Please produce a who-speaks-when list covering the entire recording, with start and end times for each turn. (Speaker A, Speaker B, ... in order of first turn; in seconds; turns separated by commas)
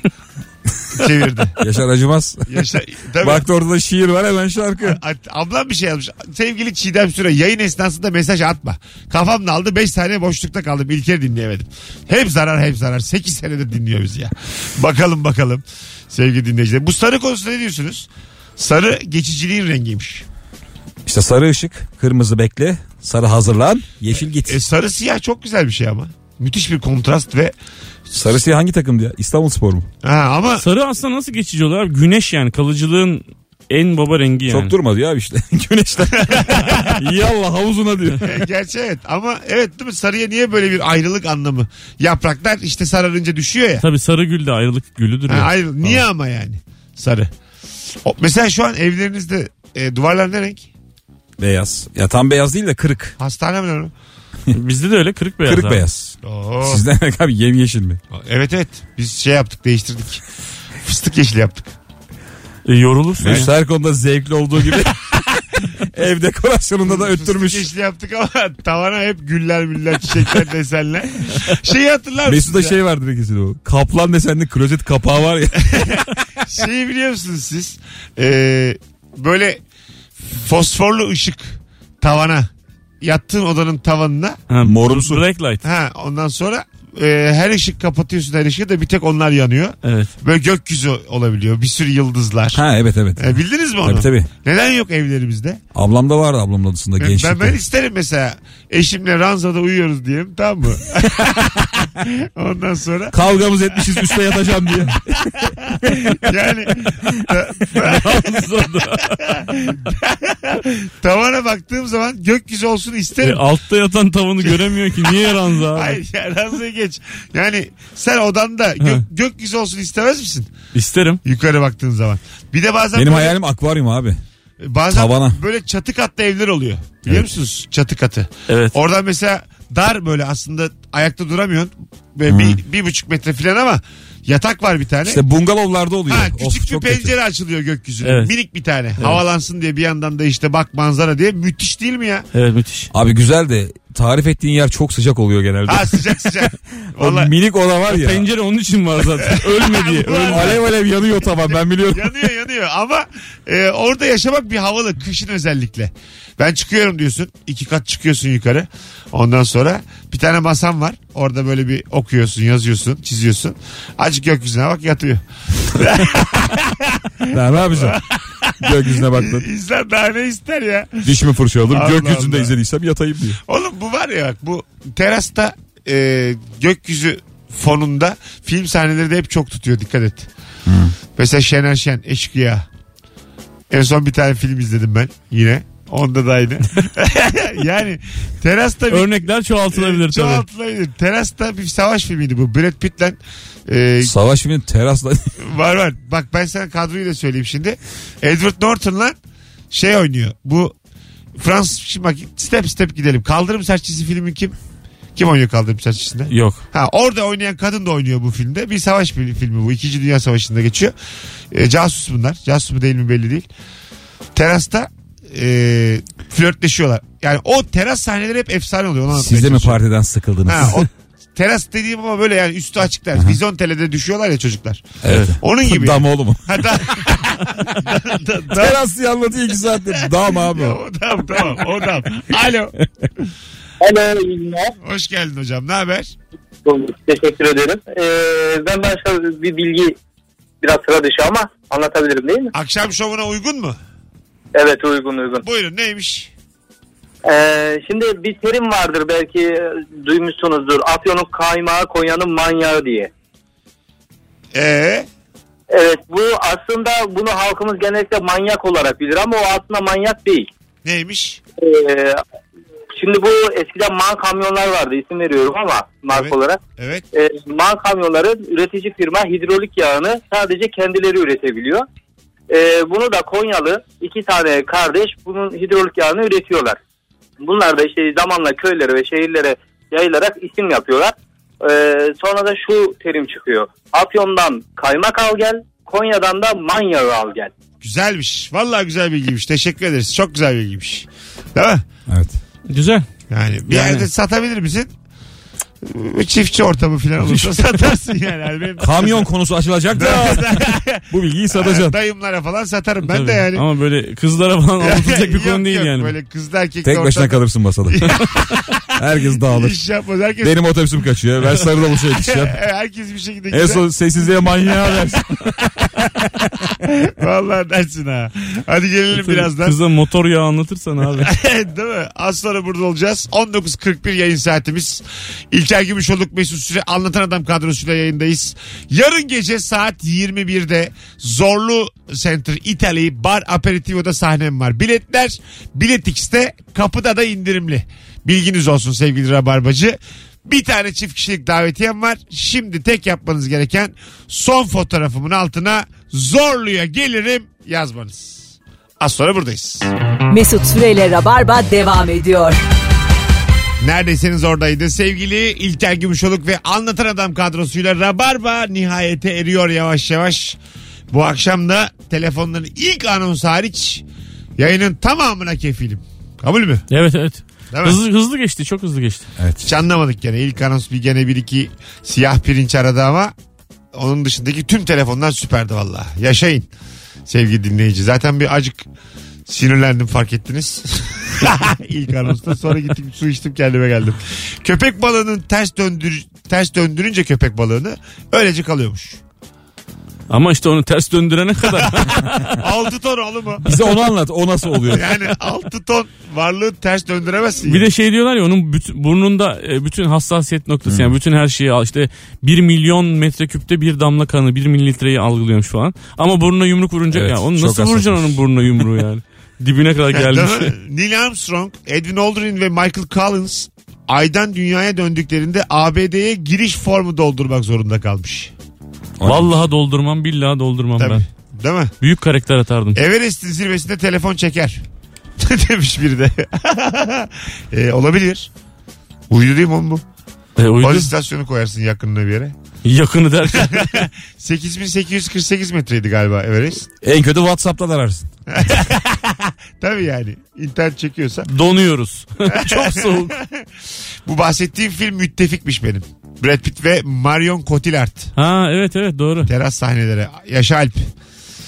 Speaker A: 0.9-1.6, Speaker B: 1.6-5.0, Speaker A: 2.5-3.5, Speaker A: 4.8-20.2, Speaker B: 21.0-24.6, Speaker A: 24.5-27.5, Speaker B: 28.1-29.9, Speaker A: 30.0-30.6, Speaker C: 30.6-34.7, Speaker B: 34.5-38.4, Speaker A: 36.1-37.0, Speaker A: 38.2-43.9, Speaker C: 43.8-46.0, Speaker A: 45.3-47.3, Speaker A: 48.0-50.7, Speaker B: 51.4-53.2, Speaker A: 53.2-53.9, Speaker C: 54.5-55.8, Speaker B: 55.4-58.0, Speaker A: 56.2-56.8, Speaker A: 58.1-60.2, Speaker A: 60.8-61.7, Speaker C: 62.6-63.5, Speaker B: 63.2-67.7, Speaker A: 66.8-72.8, Speaker B: 72.2-76.0, Speaker A: 75.7-79.6, Speaker A: 80.2-82.5, Speaker A: 83.0-84.4, Speaker C: 84.5-85.6, Speaker B: 84.6-85.2, Speaker A: 85.6-92.6, Speaker C: 89.8-90.1, Speaker B: 92.5-94.3, Speaker A: 93.2-95.6, Speaker B: 95.7-97.6, Speaker A: 97.0-103.2, Speaker B: 103.1-106.1, Speaker A: 105.4-113.4, Speaker C: 107.7-109.5, Speaker C: 113.2-116.0, Speaker A: 114.4-120.5, Speaker C: 120.7-121.2, Speaker A: 121.2-123.3, Speaker B: 122.9-124.2, Speaker A: 124.6-135.2, Speaker B: 124.9-125.4, Speaker B: 127.0-127.3, Speaker C: 128.5-128.8, Speaker B: 132.3-132.6, Speaker B: 135.0-137.1, Speaker A: 136.1-142.3, Speaker C: 138.0-138.3, Speaker C: 142.3-142.9, Speaker B: 142.9-148.2, Speaker A: 145.7-147.3, Speaker C: 147.9-150.6, Speaker A: 149.2-150.6, Speaker B: 150.3-152.2, Speaker A: 151.5-171.1, Speaker B: 167.3-168.0, Speaker B: 168.6-169.4, Speaker B: 171.0-173.4, Speaker A: 171.7-172.5, Speaker A: 173.4-180.3, Speaker B: 180.7-180.9, Speaker A: 181.1-182.7, Speaker A: 183.7-194.1, Speaker C: 188.9-190.4, Speaker B: 194.0-195.3, Speaker A: 195.4-199.2, Speaker A: 199.7-200.7, Speaker A: 201.4-204.5, Speaker A: 205.2-210.9, Speaker C: 206.3-206.6, Speaker A: 211.5-213.5, Speaker A: 214.3-219.8, Speaker B: 219.1-220.9, Speaker A: 220.4-224.8, Speaker B: 223.1-223.4, Speaker B: 225.0-227.8, Speaker C: 225.1-225.3, Speaker A: 225.4-228.8, Speaker B: 228.5-230.8, Speaker A: 230.0-232.7, Speaker D: 233.8-234.7, Speaker A: 234.8-236.1, Speaker D: 236.6-239.9, Speaker D: 240.6-242.5, Speaker A: 242.5-243.8, Speaker D: 244.5-245.4, Speaker A: 245.4-246.3, Speaker D: 247.2-253.1, Speaker A: 254.5-255.1, Speaker D: 255.7-260.5, Speaker A: 260.8-261.4, Speaker D: 261.6-262.2, Speaker D: 262.9-266.6, Speaker A: 266.1-267.0, Speaker D: 267.1-271.9, Speaker D: 272.5-276.8, Speaker D: 277.4-287.5, Speaker A: 287.8-291.8, Speaker B: 292.1-292.4, Speaker C: 292.7-293.0, Speaker A: 293.3-294.9, Speaker C: 293.7-294.1, Speaker A: 295.8-299.3, Speaker C: 297.2-297.5, Speaker B: 298.8-301.9, Speaker A: 299.9-303.6, Speaker C: 303.1-306.1, Speaker A: 304.8-308.8, Speaker B: 306.8-309.8, Speaker A: 309.5-310.6, Speaker B: 310.4-312.6, Speaker A: 312.2-313.8, Speaker B: 313.5-315.4, Speaker A: 316.7-319.7, Speaker C: 319.1-321.3, Speaker A: 321.2-349.9, Speaker E: 350.3-352.6, Speaker A: 353.8-360.6, Speaker A: 361.1-364.0, Speaker A: 364.6-366.9, Speaker C: 366.9-369.3, Speaker A: 367.7-368.0, Speaker B: 369.4-369.8, Speaker A: 369.6-373.3, Speaker A: 373.9-376.7, Speaker A: 377.3-378.9, Speaker A: 379.5-389.2, Speaker C: 390.3-392.6, Speaker A: 392.5-393.7, Speaker B: 393.6-395.2, Speaker A: 394.9-397.9, Speaker C: 397.6-410.7, Speaker B: 400.9-401.2, Speaker B: 407.1-408.8, Speaker A: 410.1-418.5, Speaker B: 419.2-419.7, Speaker C: 419.2-421.2, Speaker A: 421.0-421.9, Speaker C: 422.0-423.0, Speaker A: 422.9-424.8, Speaker A: 425.4-428.5, Speaker A: 429.3-430.0, Speaker C: 430.6-431.1, Speaker A: 430.8-432.5, Speaker C: 432.8-434.0, Speaker A: 433.5-436.9, Speaker B: 437.0-438.3, Speaker A: 438.5-441.5, Speaker C: 441.4-443.3, Speaker A: 442.5-443.6, Speaker A: 444.2-448.3, Speaker C: 448.4-449.5, Speaker A: 449.4-451.1